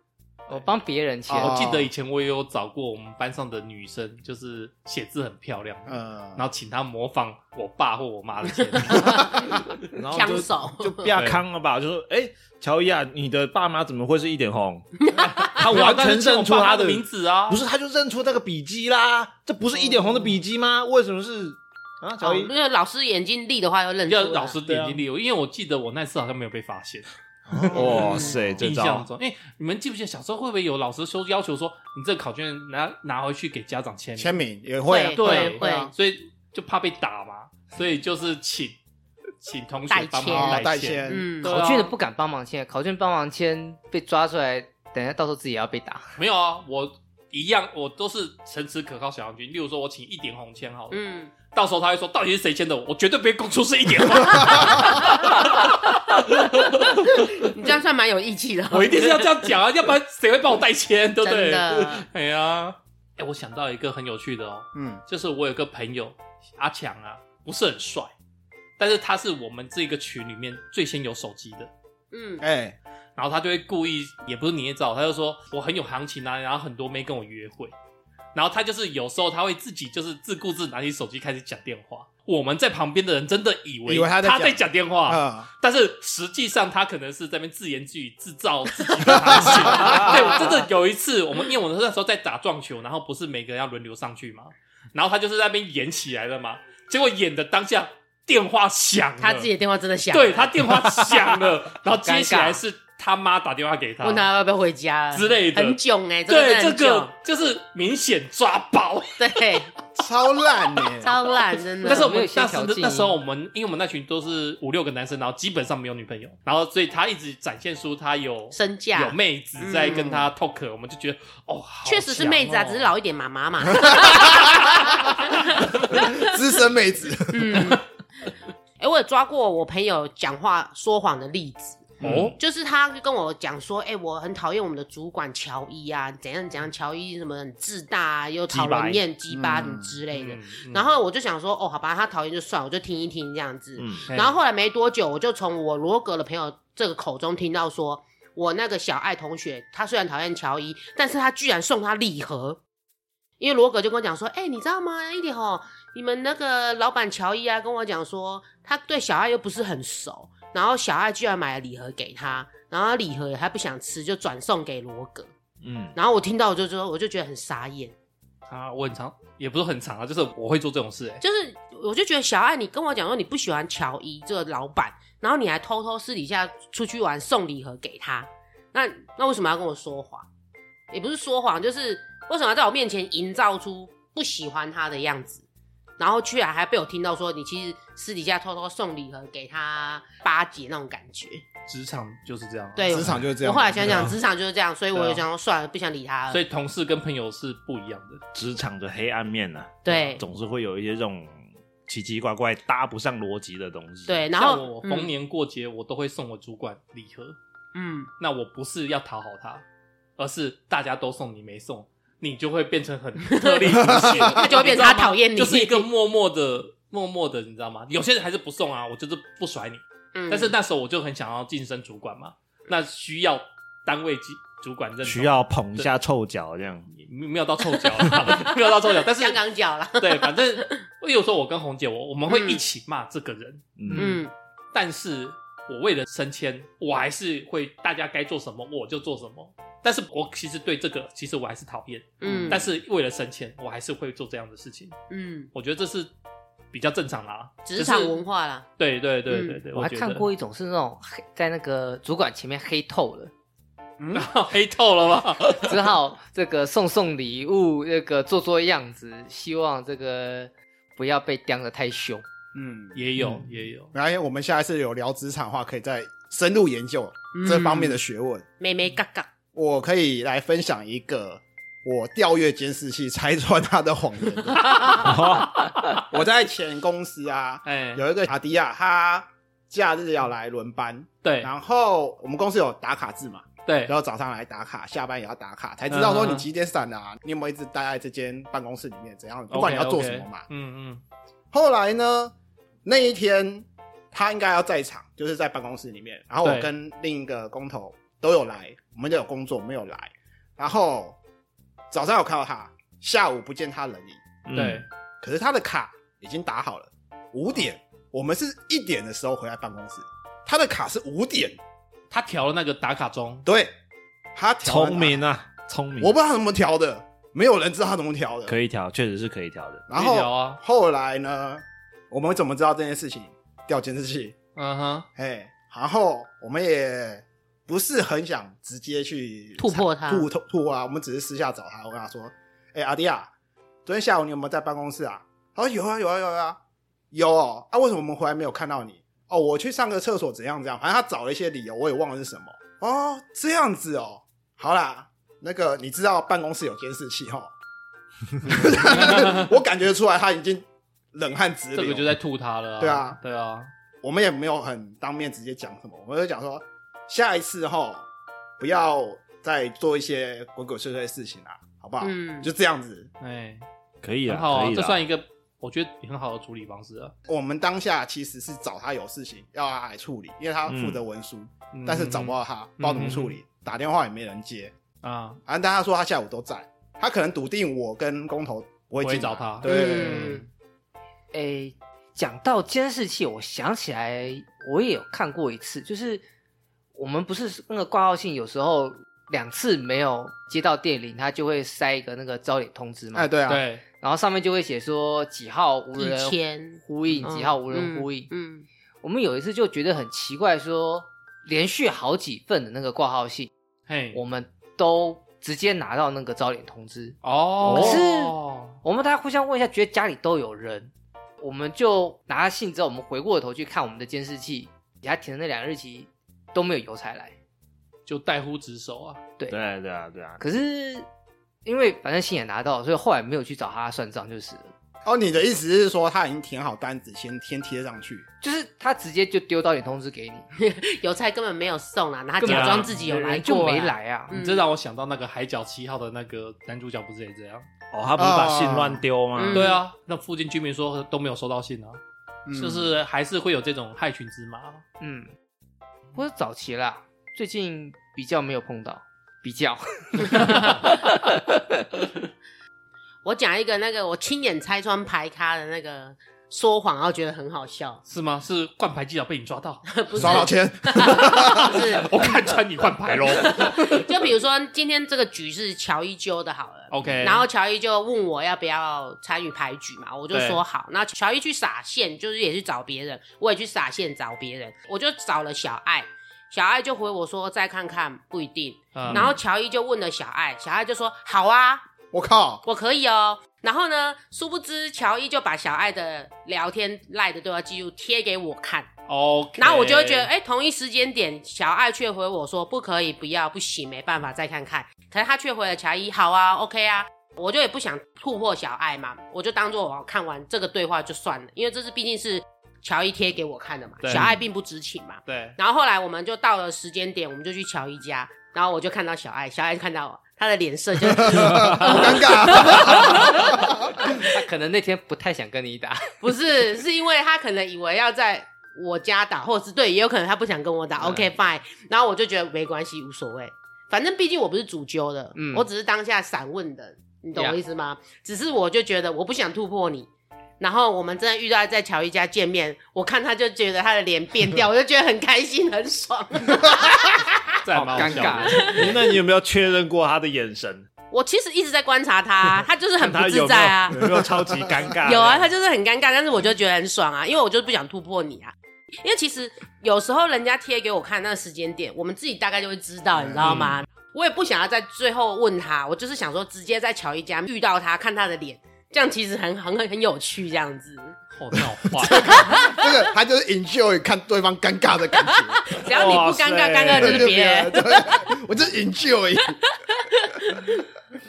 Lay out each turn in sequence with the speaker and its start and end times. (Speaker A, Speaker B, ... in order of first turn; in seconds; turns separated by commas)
Speaker A: 0.5-1.7, Speaker B: 1.3-1.9, Speaker C: 1.4-9.6, Speaker B: 5.9-6.4, Speaker D: 8.9-9.6, Speaker B: 9.0-9.3, Speaker E: 9.9-14.9, Speaker D: 10.1-11.2, Speaker C: 11.1-11.4, Speaker D: 15.0-15.6, Speaker E: 15.4-22.5, Speaker C: 15.7-17.6, Speaker D: 22.2-24.6, Speaker C: 24.1-27.1, Speaker E: 24.7-25.0, Speaker B: 27.5-28.1, Speaker E: 27.5-29.1, Speaker C: 27.7-34.4, Speaker D: 27.8-28.4, Speaker B: 34.2-35.9, Speaker D: 34.9-35.9, Speaker C: 35.2-38.8, Speaker C: 39.4-41.9, Speaker D: 39.9-41.5, Speaker B: 40.3-41.3, Speaker A: 41.4-46.1, Speaker C: 46.2-57.5, Speaker D: 50.9-51.3, Speaker D: 56.9-59.5, Speaker C: 58.7-68.1, Speaker D: 61.2-62.1, Speaker B: 64.8-65.0, Speaker C: 68.8-71.7, Speaker D: 72.1-72.4, Speaker B: 72.4-72.8, Speaker C: 73.2-77.7, Speaker C: 78.3-99.5, Speaker B: 83.9-85.5, Speaker B: 89.1-90.3, Speaker E: 89.7-90.5, Speaker D: 99.2-100.7, Speaker C: 100.1-104.3, Speaker A: 102.0-102.6, Speaker D: 104.0-107.1, Speaker C: 105.1-109.3, Speaker D: 109.2-109.7, Speaker B: 109.9-111.1, Speaker D: 111.0-112.1, Speaker C: 111.8-122.9, Speaker A: 111.8-113.2, Speaker D: 118.5-120.2, Speaker D: 121.8-126.3, Speaker B: 123.8-125.0, Speaker B: 125.8-127.8, Speaker D: 127.3-127.8, Speaker D: 128.8-152.6, Speaker C: 132.0-132.4, Speaker B: 132.0-132.3, Speaker E: 138.5-139.0, Speaker B: 139.3-139.9, Speaker C: 140.1-140.9, Speaker E: 143.8-144.1, Speaker C: 144.1-144.4, Speaker D: 153.4-165.3, Speaker E: 165.6-166.0, Speaker D: 165.9-167.9, Speaker C: 168.5-171.2, Speaker D: 171.2-180.3, Speaker D: 180.9-185.4, Speaker D: 186.0-191.4, Speaker C: 191.7-193.1, Speaker D: 192.8-196.4, Speaker B: 192.9-194.2, Speaker C: 194.9-195.2, Speaker C: 196.3-198.2, Speaker E: 198.3-204.3, Speaker D: 199.8-200.2, Speaker D: 204.1-205.1, Speaker C: 204.3-207.4, Speaker D: 207.7-208.1, Speaker C: 208.2-209.6, Speaker C: 210.2-225.9, Speaker D: 213.3-215.9, Speaker B: 213.8-214.4, Speaker D: 220.2-220.6, Speaker E: 225.0-226.9, Speaker C: 226.9-229.4, Speaker D: 228.2-230.7, Speaker C: 230.0-234.2, Speaker D: 232.3-232.6, Speaker E: 233.8-234.2, Speaker D: 233.9-234.3, Speaker C: 234.7-245.0, Speaker D: 242.2-242.6, Speaker B: 242.3-242.6, Speaker D: 245.1-245.5, Speaker C: 245.5-246.1, Speaker C: 246.7-248.2, Speaker D: 247.7-248.7, Speaker C: 248.8-250.3, Speaker D: 249.3-249.6, Speaker A: 249.8-253.3, Speaker B: 254.0-254.3, Speaker C: 254.1-255.9, Speaker A: 255.5-262.2, Speaker B: 262.5-263.3, Speaker C: 262.9-263.9, Speaker B: 263.9-268.4, Speaker D: 267.3-268.0, Speaker D: 268.6-269.3, Speaker B: 269.5-275.2, Speaker E: 274.9-276.0, Speaker C: 275.6-275.9, Speaker B: 276.1-290.5, Speaker C: 277.6-278.0, Speaker C: 281.2-281.5, Speaker C: 283.7-283.9, Speaker C: 285.9-286.5, Speaker C: 289.5-291.0, Speaker B: 291.5-292.3, Speaker B: 292.9-301.2, Speaker C: 296.4-296.7, Speaker B: 301.9-304.2, Speaker E: 304.5-304.8, Speaker C: 304.5-304.9, Speaker B: 305.2-311.6, Speaker C: 312.1-313.5, Speaker B: 313.4-313.7, Speaker B: 314.4-315.2, Speaker E: 314.6-316.1, Speaker B: 316.0-318.6, Speaker E: 318.5-319.9, Speaker B: 319.9-324.4, Speaker C: 319.9-320.6, Speaker C: 324.6-325.1, Speaker B: 325.2-333.3, Speaker D: 329.6-330.3, Speaker B: 333.9-336.6, Speaker B: 337.1-347.5, Speaker B: 348.4-352.2, Speaker C: 348.8-349.5, Speaker C: 351.7-353.7, Speaker B: 352.8-353.2, Speaker B: 354.0-358.1, Speaker B: 358.6-363.1, Speaker D: 362.0-362.5, Speaker C: 363.2-363.6, Speaker E: 364.0-365.0, Speaker C: 364.3-367.1, Speaker B: 367.3-374.7, Speaker E: 370.7-371.0, Speaker C: 371.7-373.4, Speaker C: 375.0-375.4, Speaker B: 375.5-380.4, Speaker C: 379.0-380.4, Speaker D: 379.6-380.4, Speaker A: 381.3-386.2, Speaker A: 386.9-393.3, Speaker B: 393.1-393.6, Speaker C: 393.5-393.8, Speaker A: 394.0-398.3, Speaker D: 396.0-398.6, Speaker A: 399.0-403.5, Speaker C: 403.9-404.2, Speaker A: 404.1-417.3, Speaker C: 407.2-408.8, Speaker C: 418.1-419.2, Speaker E: 419.5-420.4, Speaker A: 420.4-421.1, Speaker A: 421.6-424.7, Speaker B: 425.1-428.2, Speaker A: 428.4-430.5, Speaker D: 430.6-434.6, Speaker A: 432.4-434.4, Speaker E: 432.5-432.9, Speaker C: 434.3-437.7, Speaker E: 437.9-439.7, Speaker B: 438.2-439.0, Speaker D: 439.4-439.8, Speaker C: 439.5-442.0, Speaker B: 442.5-442.9, Speaker C: 442.5-444.8, Speaker A: 445.0-445.3, Speaker A: 446.1-451.9, Speaker D: 453.2-458.0, Speaker C: 458.1-460.5, Speaker D: 459.9-462.2, Speaker B: 460.2-461.9, Speaker C: 461.4-464.1, Speaker D: 463.3-481.9, Speaker C: 466.9-467.5, Speaker C: 470.3-470.6, Speaker C: 478.9-479.3, Speaker B: 479.1-479.4, Speaker B: 482.1-482.6, Speaker D: 482.6-488.9, Speaker C: 489.1-490.3, Speaker D: 489.6-514.2, Speaker C: 504.0-504.3, Speaker C: 505.3-505.6, Speaker B: 511.1-514.1, Speaker A: 514.0-516.1, Speaker D: 516.2-530.1, Speaker A: 521.0-521.3, Speaker A: 525.4-525.7, Speaker D: 530.6-539.1, Speaker C: 537.6-538.8, Speaker A: 537.8-538.8, Speaker E: 538.6-540.9, Speaker D: 541.1-544.2, Speaker E: 543.0-545.5, Speaker D: 545.0-561.2, Speaker B: 553.1-553.6, Speaker E: 553.5-553.8, Speaker C: 561.3-562.5, Speaker B: 562.0-565.7, Speaker D: 562.1-562.9, Speaker D: 565.6-568.3, Speaker E: 565.9-567.4, Speaker B: 567.0-569.6, Speaker D: 570.2-570.7